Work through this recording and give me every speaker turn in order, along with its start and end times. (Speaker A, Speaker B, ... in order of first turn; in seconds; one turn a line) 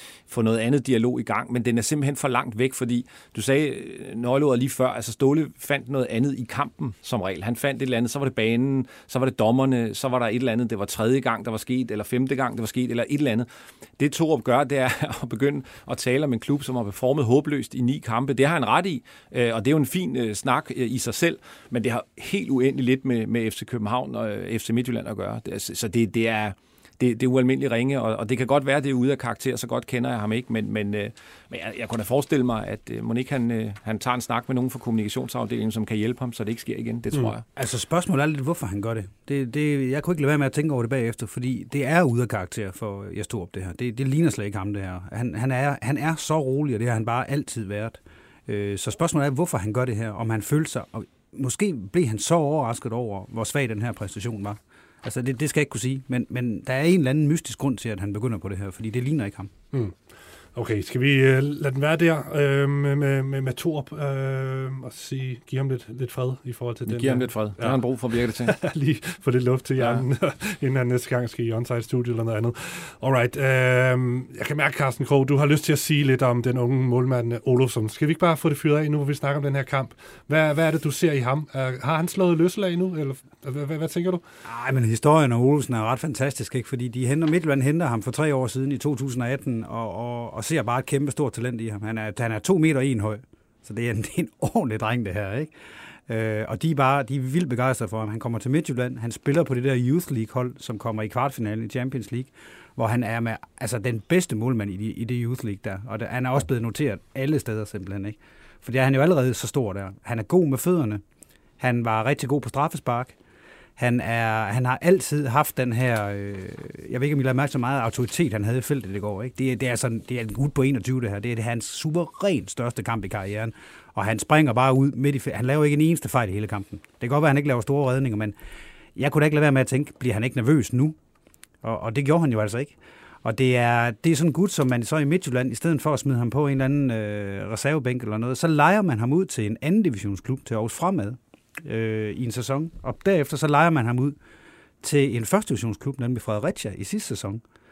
Speaker A: 0.3-37.5
Speaker B: 37.6-59.5
Speaker C: 59.7-60.0
Speaker C: 60.5-67.8
Speaker A: 66.9-68.6
Speaker C: 68.4-84.2
Speaker A: 69.8-70.0
Speaker B: 84.4-95.5
Speaker B: 96.1-111.0
Speaker B: 111.6-113.2
Speaker B: 113.8-128.4
Speaker B: 129.0-131.0
Speaker B: 131.6-144.2
Speaker B: 144.8-147.4